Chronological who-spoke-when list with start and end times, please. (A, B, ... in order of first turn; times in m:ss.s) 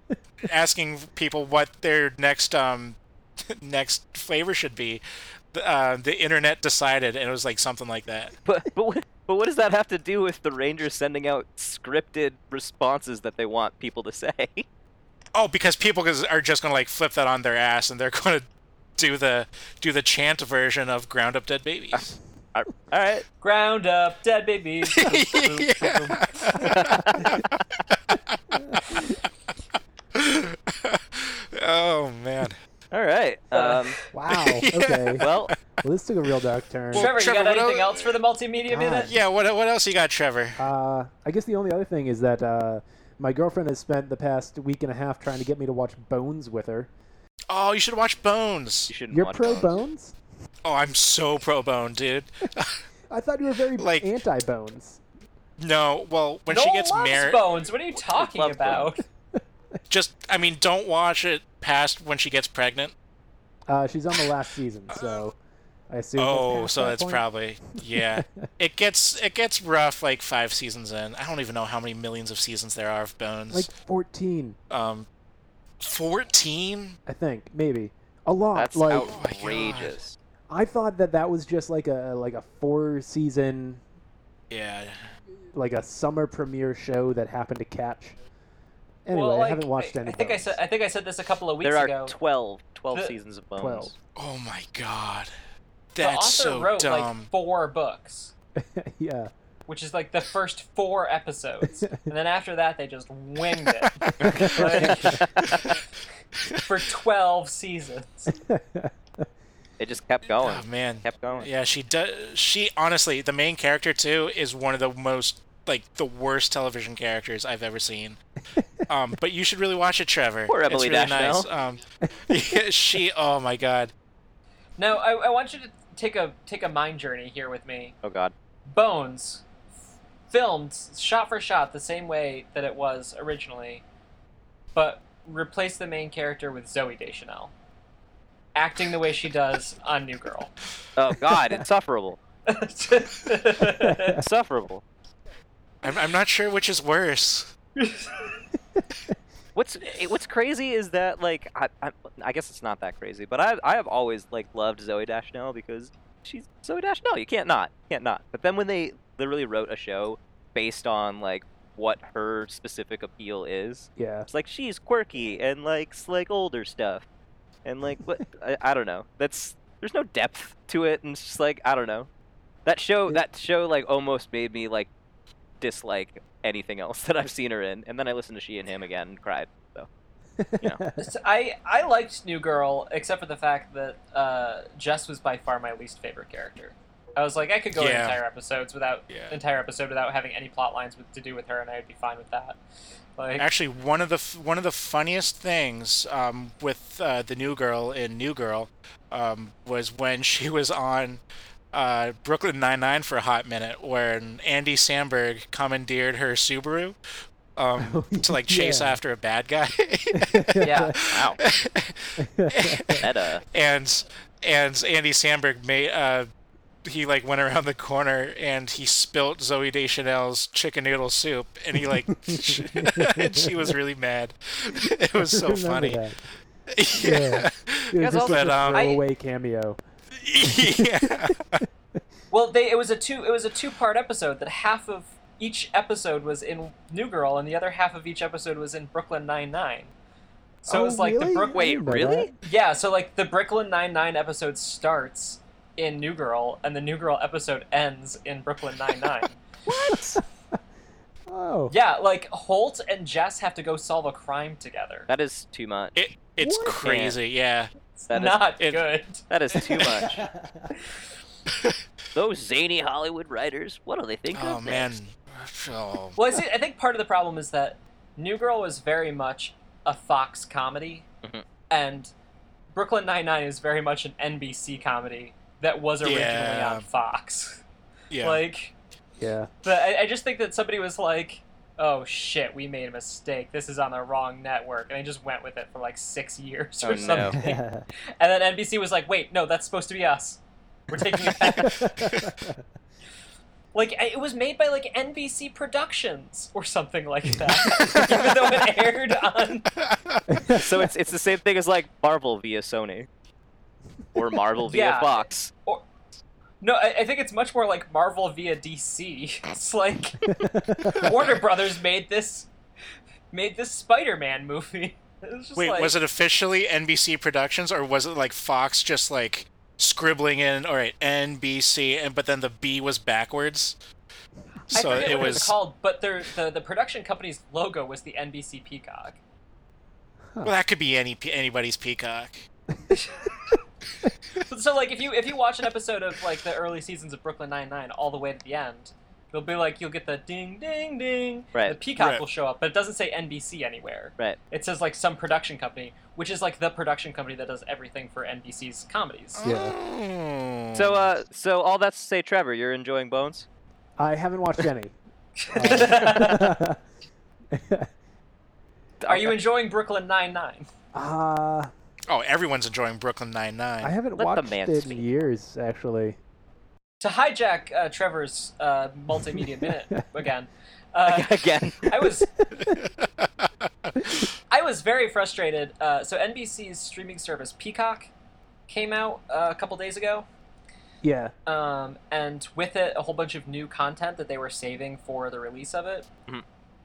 0:00.4-0:03.0 A
0:03.5-0:08.3 A
0:08.4-0:14.6 B
0:15.3-0:22.1 A
0:21.9-0:23.2 B
0:23.4-0:26.5 C
0:24.9-0:29.2 A
0:26.6-0:27.4 B
0:28.6-0:29.0 D
0:30.1-0:32.6 A
0:32.9-0:34.0 B
0:33.5-0:34.0 C
0:34.1-0:35.3 D
0:34.3-0:35.5 A
0:35.2-0:35.5 B
0:35.8-0:37.1 D
0:36.9-0:38.2 A
0:36.9-0:39.1 C
0:38.7-0:39.1 D
0:39.0-0:40.6 A
0:40.6-0:46.9 D
0:47.5-0:48.9 A
0:48.9-0:49.8 B
0:49.1-0:50.2 D
0:50.6-0:52.8 A
0:53.1-0:55.0 D
0:53.8-0:54.1 A
0:55.6-0:57.6 A
0:56.5-0:59.0 C
0:57.9-0:58.9 B
0:59.9-1:02.9 A
1:03.7-1:05.4 D
1:04.9-1:05.2 A
1:05.9-1:07.2 D
1:06.2-1:13.7 A
1:07.9-1:08.5 D
1:13.5-1:14.6 D
1:14.7-1:15.1 A
1:15.8-1:17.0 A
1:17.0-1:19.1 D
1:18.5-1:20.2 B
1:18.9-1:20.0 A
1:20.5-1:23.8 D
1:24.5-1:25.1 A
1:25.5-1:28.2 D
1:29.0-1:30.6 D
1:29.1-1:32.1 C
1:31.6-1:33.9 B
1:33.6-1:33.9 D
1:34.2-1:35.3 A
1:35.9-1:37.3 A
1:36.0-1:38.3 C
1:38.6-1:39.3 D
1:39.7-1:45.2 C
1:44.0-1:45.8 A
1:44.2-1:45.7 B
1:44.3-1:45.2 D
1:46.6-1:48.3 C
1:48.3-1:49.3 D
1:49.8-1:51.5 B
1:50.4-1:58.2 A
1:58.9-2:03.9 A
2:00.5-2:01.5 B
2:04.8-2:07.9 C
2:08.0-2:08.3 B
2:08.7-2:09.4 C
2:10.3-2:13.8 C
2:14.7-2:17.5 C
2:18.5-2:20.5 C
2:21.0-2:22.2 B
2:22.4-2:24.2 C
2:23.6-2:24.2 D
2:24.2-2:24.8 B
2:25.8-2:27.5 A
2:27.8-2:28.4 C
2:28.7-2:29.1 D
2:29.5-2:47.0 B
2:44.0-2:44.3 D
2:47.6-2:52.1 B
2:52.6-2:54.9 B
2:55.6-2:59.9 B
3:00.4-3:01.1 D
3:01.0-3:12.6 C
3:07.7-3:08.2 A
3:09.1-3:09.3 A
3:13.2-3:13.4 C
3:13.4-3:21.2 A
3:21.7-3:27.0 A
3:27.6-3:36.3 A
3:27.8-3:29.0 D
3:30.2-3:31.0 D
3:30.6-3:30.9 C
3:31.0-3:31.4 B
3:32.2-3:33.0 D
3:33.0-3:33.4 B
3:36.8-3:46.0 A
3:41.7-3:43.8 D
3:44.7-3:46.2 D
3:46.7-3:48.8 A
3:46.9-3:49.8 D
3:48.0-3:48.6 B
3:48.7-3:49.0 C
3:50.2-3:51.6 A
3:50.5-3:51.1 D
3:52.3-3:59.9 C
4:00.6-4:01.8 C
4:00.7-4:02.3 D
4:01.5-4:02.3 B
4:02.4-4:09.4 C
4:09.6-4:10.2 B
4:09.9-4:10.2 D
4:11.3-4:11.7 D
4:11.7-4:15.1 C
4:15.1-4:16.0 B
4:16.0-4:17.7 A
4:16.4-4:16.7 D
4:16.6-4:17.2 B
4:17.9-4:20.1 C
4:18.1-4:18.5 B
4:19.3-4:20.2 B
4:19.8-4:20.7 D
4:22.1-4:24.9 B
4:24.3-4:26.2 A
4:26.2-4:31.0 C
4:31.7-4:32.1 C
4:32.7-4:37.6 C
4:36.0-4:36.8 A
4:38.1-4:38.4 A
4:38.2-4:38.7 C
4:39.2-4:39.5 D
4:39.6-4:47.6 C
4:46.8-4:47.4 B
4:47.0-4:47.8 D
4:48.2-4:51.9 C
4:51.6-4:52.6 D
4:52.0-4:52.3 A
4:53.7-4:59.7 C
4:57.8-4:58.2 A
4:59.8-5:00.2 A
5:00.3-5:00.9 D
5:00.5-5:03.1 B
5:04.1-5:05.5 B
5:04.7-5:05.8 C
5:06.6-5:10.3 C
5:10.3-5:11.1 D
5:10.8-5:11.4 A
5:10.9-5:12.5 C
5:13.3-5:15.9 C
5:15.6-5:23.8 A
5:24.7-5:29.2 C
5:24.7-5:25.5 A
5:30.4-5:32.5 A
5:32.9-5:33.5 C
5:34.5-5:49.4 C
5:42.0-5:42.2 A
5:49.4-5:51.1 A
5:49.4-5:49.7 D
5:50.7-5:53.4 B
5:54.0-5:54.9 D
5:55.4-5:56.5 C
5:55.5-5:56.8 D
5:57.5-5:57.9 D
5:59.0-5:59.3 B
5:59.1-6:00.7 C
6:00.9-6:01.7 D
6:02.1-6:04.0 A
6:03.8-6:06.2 D
6:04.2-6:05.1 B
6:07.0-6:12.3 C
6:09.2-6:10.0 D
6:11.0-6:12.0 B
6:12.4-6:12.8 D
6:12.6-6:14.3 A
6:14.5-6:18.1 C
6:18.7-6:20.3 C
6:21.0-6:21.3 D
6:21.4-6:26.1 C